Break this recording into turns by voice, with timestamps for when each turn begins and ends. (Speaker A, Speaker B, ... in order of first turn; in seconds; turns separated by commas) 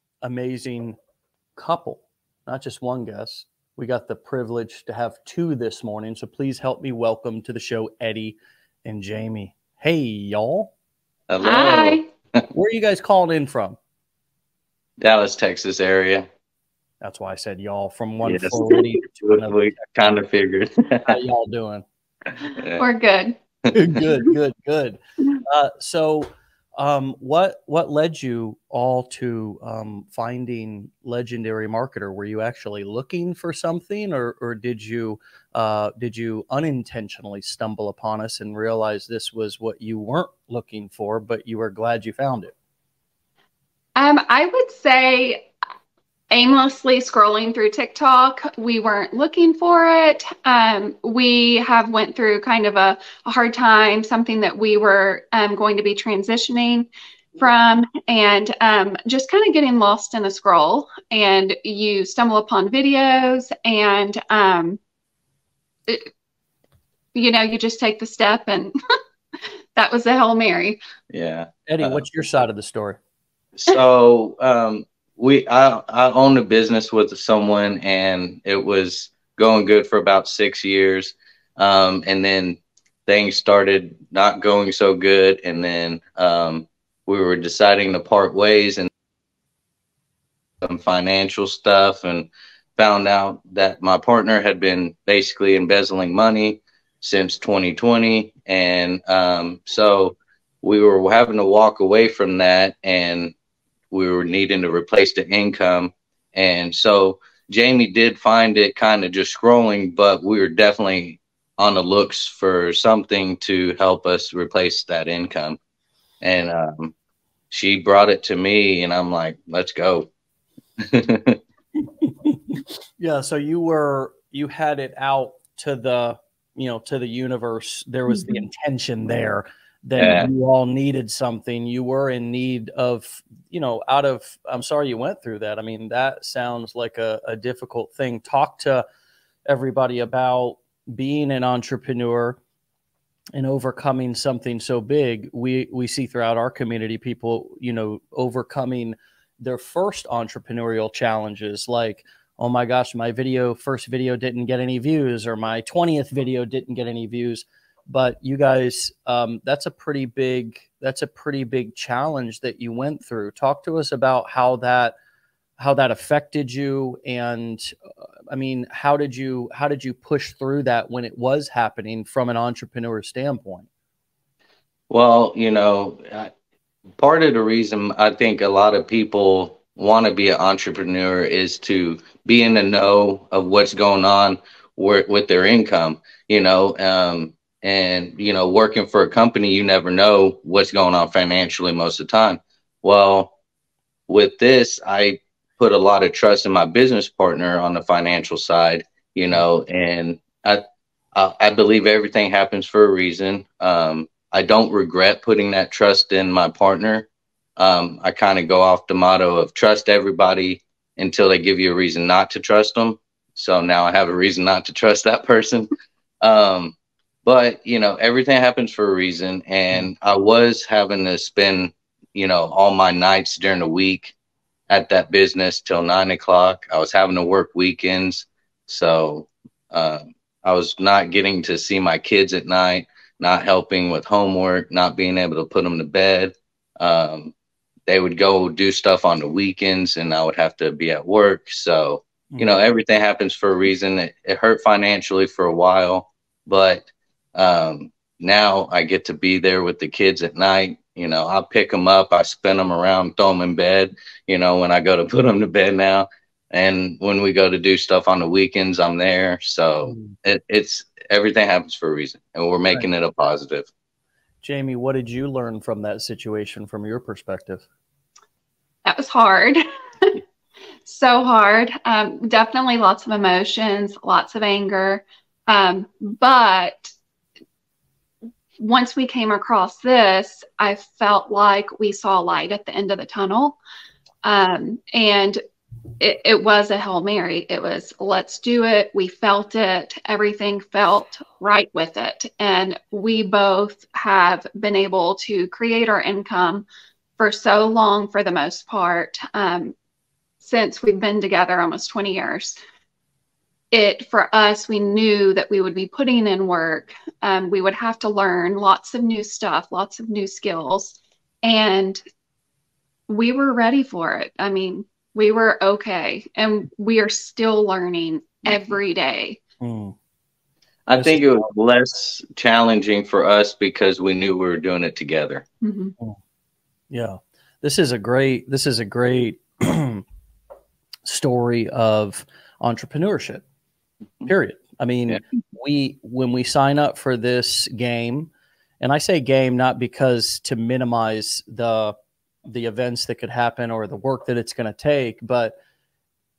Speaker A: 0.2-1.0, Speaker A: 1.6-10.7, Speaker B: 11.3-12.5, Speaker C: 11.4-12.1, Speaker A: 12.5-13.8, Speaker B: 15.0-16.3, Speaker A: 17.0-20.1, Speaker B: 18.2-21.1, Speaker A: 21.1-21.8, Speaker B: 22.5-22.8, Speaker C: 22.8-23.4, Speaker A: 23.7-42.5, Speaker C: 24.0-24.2, Speaker C: 44.0-45.5, Speaker C: 46.3-64.8, Speaker C: 67.1-68.7, Speaker C: 69.8-70.8, Speaker B: 71.1-72.0, Speaker A: 71.7-73.0, Speaker B: 73.6-88.9, Speaker B: 90.6-103.3, Speaker B: 103.9-115.6, Speaker B: 116.2-116.9, Speaker B: 117.5-120.1, Speaker B: 120.8-121.4, Speaker A: 122.0-138.8, Speaker C: 128.1-128.4, Speaker B: 130.0-130.3, Speaker A: 139.5-142.4, Speaker A: 143.3-164.9, Speaker A: 165.6-167.8, Speaker A: 168.3-173.7, Speaker B: 174.9-176.3, Speaker B: 177.0-193.3, Speaker B: 194.1-200.6, Speaker B: 201.1-215.7, Speaker B: 216.2-224.1, Speaker B: 224.7-237.3, Speaker B: 237.9-263.7, Speaker A: 259.8-260.1, Speaker A: 264.4-267.6, Speaker C: 268.9-270.2, Speaker C: 270.8-276.9, Speaker C: 278.6-283.6, Speaker C: 284.2-285.4, Speaker C: 286.0-296.6, Speaker C: 297.2-299.8, Speaker C: 300.4-302.6, Speaker C: 303.7-312.0, Speaker C: 313.1-319.4, Speaker A: 319.6-319.9, Speaker B: 320.9-325.4, Speaker A: 321.0-321.5, Speaker C: 325.6-325.9, Speaker A: 326.9-330.0, Speaker A: 331.0-333.4, Speaker A: 334.2-341.9, Speaker A: 342.4-345.5